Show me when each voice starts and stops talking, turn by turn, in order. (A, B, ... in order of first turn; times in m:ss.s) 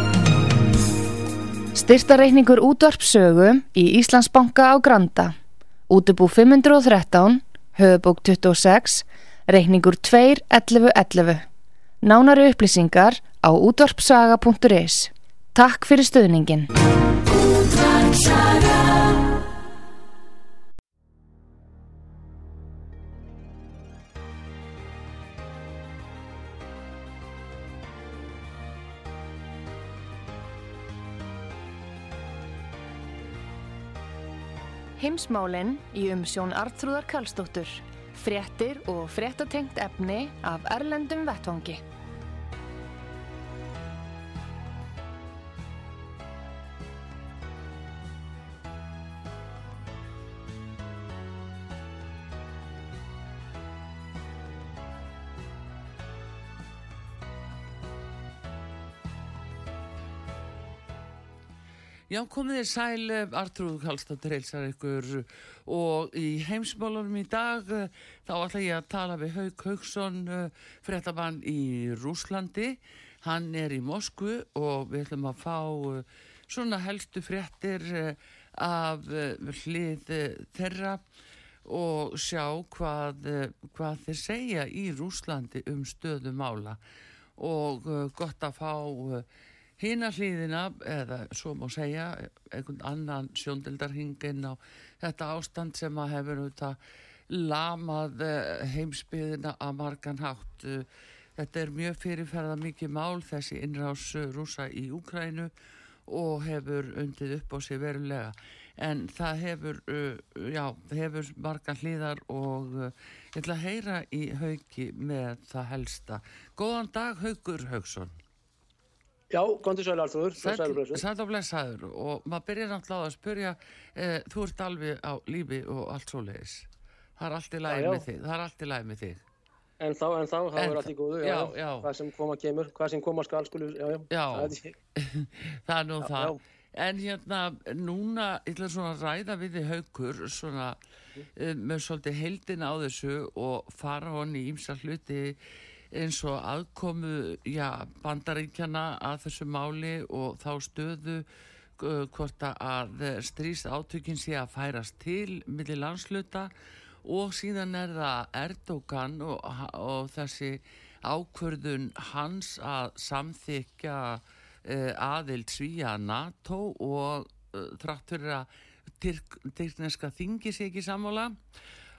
0:01.7-0:05.4 A
0:05.9-0:11.4 A
0:12.0-0:16.7 A
0:17.4-0:18.9 A
0:35.0-0:41.8 A
1:02.1-1:21.0 B
1:21.6-1:26.8 B
1:27.4-1:29.2 B
1:29.8-1:36.8 B
1:37.3-1:45.5 B
1:46.1-1:58.1 B
1:59.3-2:01.0 C
2:00.4-2:09.2 B
2:07.6-2:08.0 C
2:09.8-2:14.8 C
2:10.6-2:11.9 B
2:14.1-2:20.8 B
2:16.0-2:16.4 C
2:21.3-2:25.4 B
2:25.9-2:31.2 B
2:31.8-2:36.5 B
2:37.0-2:48.5 B
2:49.0-2:51.4 B